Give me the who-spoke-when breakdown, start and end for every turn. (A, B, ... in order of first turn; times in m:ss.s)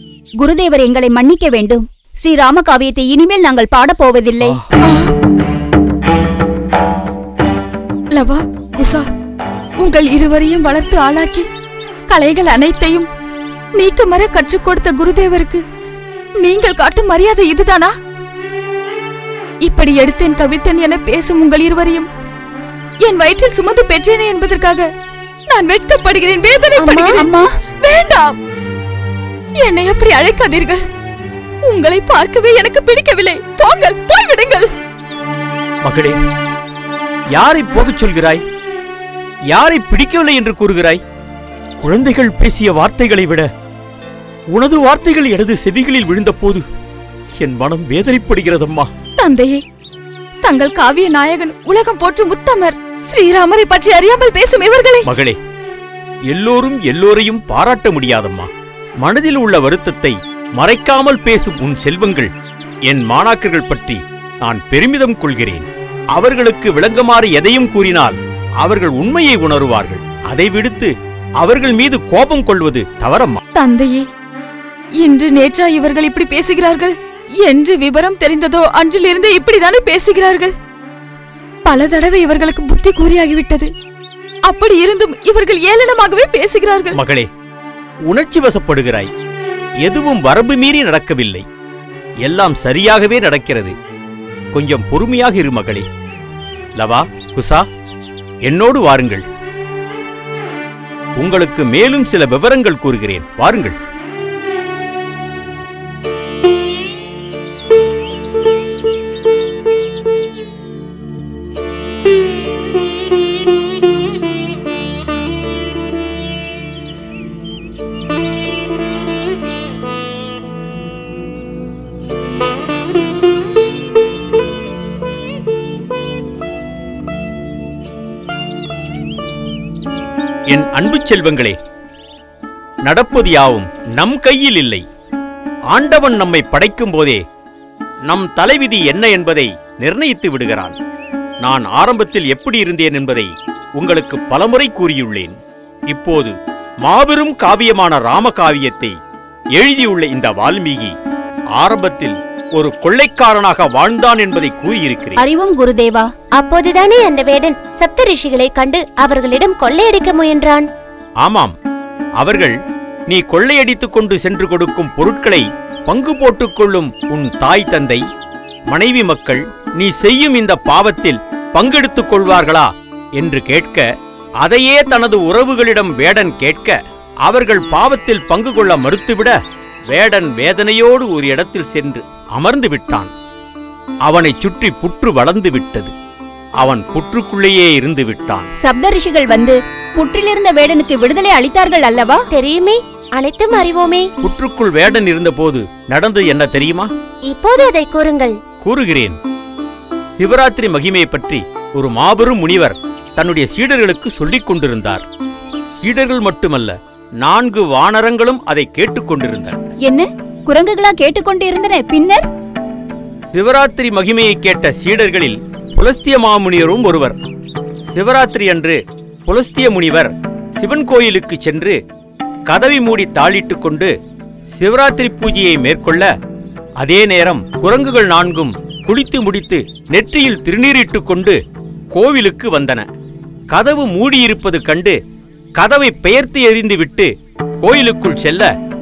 0:00.4-0:04.6 A
0:04.8-0:05.1 B
0:08.1-0:09.0 B
0:09.8-0:11.5 B
0:12.1-0:13.1 B
0:13.8-0:15.6 B
0:16.4-0:17.9 B
0:19.6-0:22.1 B
0:23.0-0:24.9 B
0:25.5-0:27.3 B
0:26.8-0:27.5 A
0:27.8-0:28.3 B
0:29.6-0:30.8 B
0:31.7-0:34.7 B
0:35.8-0:36.2 C
0:37.3-0:38.4 C
0:39.5-0:41.0 C
0:41.8-0:43.5 C
0:44.5-0:46.6 C
0:47.4-0:48.9 C
0:49.2-0:49.6 B
0:50.4-0:55.1 B
0:55.0-0:55.4 C
0:56.3-0:58.5 C
0:59.0-1:02.3 C
1:02.9-1:13.4 C
1:13.5-1:14.0 B
1:15.0-1:20.5 B
1:21.6-1:23.7 B
1:24.5-1:27.0 B
1:26.9-1:27.3 C
1:28.1-1:29.1 C
1:29.8-1:31.4 C
1:32.2-1:33.7 C
1:34.5-1:35.8 C
1:36.8-1:37.6 C
1:38.4-1:39.2 C
1:41.2-1:43.8 C
2:10.5-2:11.5 C
2:12.8-2:14.8 C
2:15.7-2:17.2 C
2:18.1-2:20.8 C
2:21.4-2:25.4 C
2:25.9-2:29.0 C
2:29.6-2:30.9 C
2:31.6-2:35.2 C
2:35.2-2:36.1 A
2:36.4-2:40.6 D
2:41.2-2:41.5 C
2:42.2-2:42.5 C
2:43.1-2:48.0 C
2:48.7-2:53.8 C
2:54.4-2:56.7 C
2:57.2-2:59.4 C
2:59.9-3:03.1 C
3:04.0-3:05.9 C
3:06.6-3:08.5 C
3:08.6-3:12.2 A
3:12.3-3:14.0 D
3:14.2-3:16.9 C
3:17.3-3:18.3 D
3:18.6-3:19.2 C
3:20.2-3:25.0 C
3:25.8-3:29.6 C
3:29.8-3:32.2 A
3:33.3-3:37.2 C
3:37.9-3:41.8 C
3:42.5-3:43.9 C
3:44.6-3:46.1 C
3:46.8-3:51.4 C
3:51.9-3:52.8 C
3:53.5-3:55.0 C
3:55.6-3:57.1 C
3:57.6-3:58.5 C